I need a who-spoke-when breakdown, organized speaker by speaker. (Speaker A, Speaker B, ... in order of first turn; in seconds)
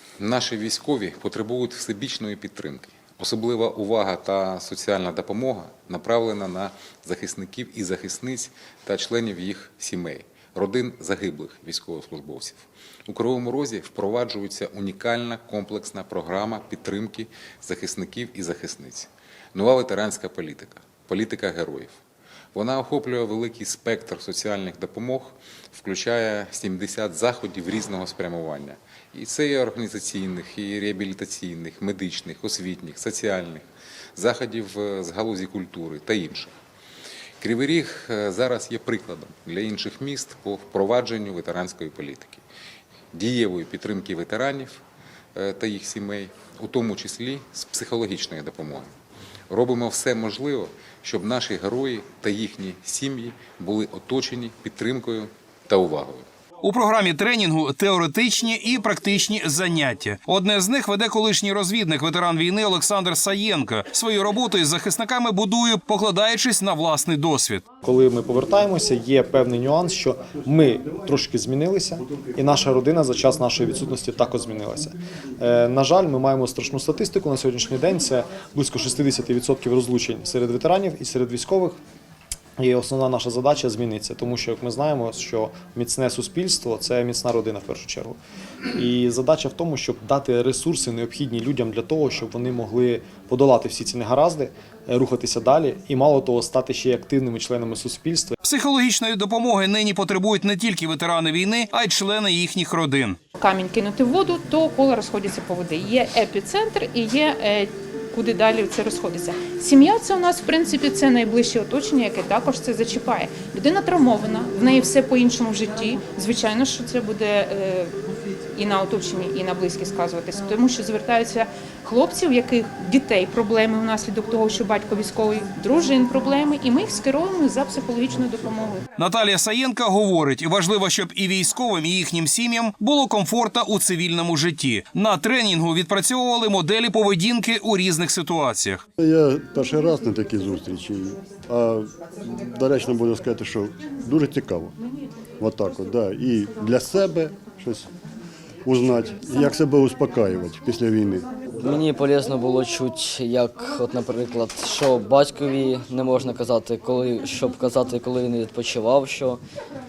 Speaker A: 0.2-22.0, 22.5-33.6, 34.2-36.5, 37.4-42.4, 43.1-44.8, 45.4-48.9, 49.5-56.2
Speaker B: 56.6-67.6, 98.4-103.2, 129.0-138.8
Speaker C: 67.8-81.8, 82.6-88.2, 88.7-98.4
Speaker D: 103.4-117.9, 118.5-128.8
Speaker E: 139.0-144.8, 145.4-147.9, 148.7-151.3
Speaker F: 151.6-159.4